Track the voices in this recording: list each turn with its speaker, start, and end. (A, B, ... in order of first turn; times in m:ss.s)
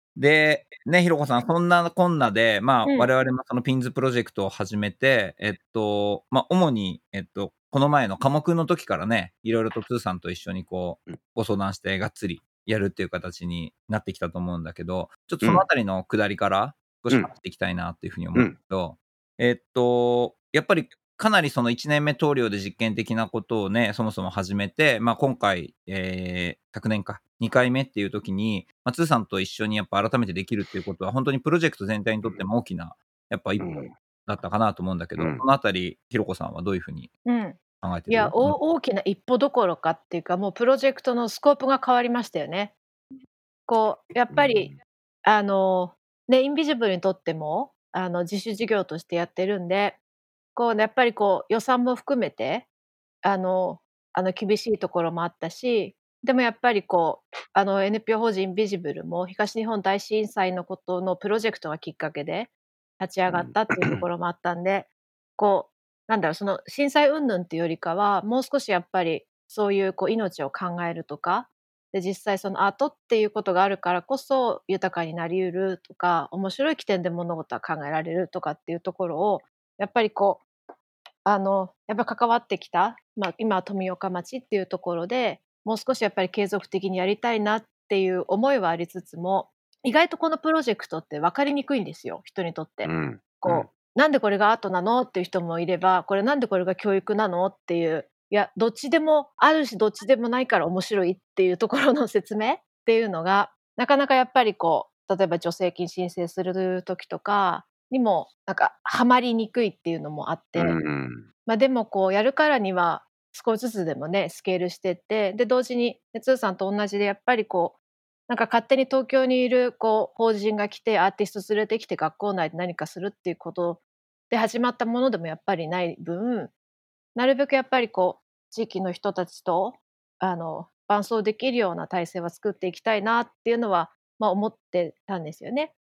0:00.2-0:37.1 A
0:33.6-0:33.9 B
0:35.2-0:35.4 B
0:37.3-0:42.8 C
0:37.8-0:38.6 A
0:43.7-0:44.7 C
0:44.3-0:44.8 B
0:45.3-0:50.0 C
0:50.6-0:52.7 C
0:53.2-1:20.4 C
1:03.3-1:04.0 B
1:21.2-1:50.8 C
1:32.8-1:33.7 B
1:50.6-1:51.3 B
1:51.5-2:06.5 C
2:07.2-2:15.7 C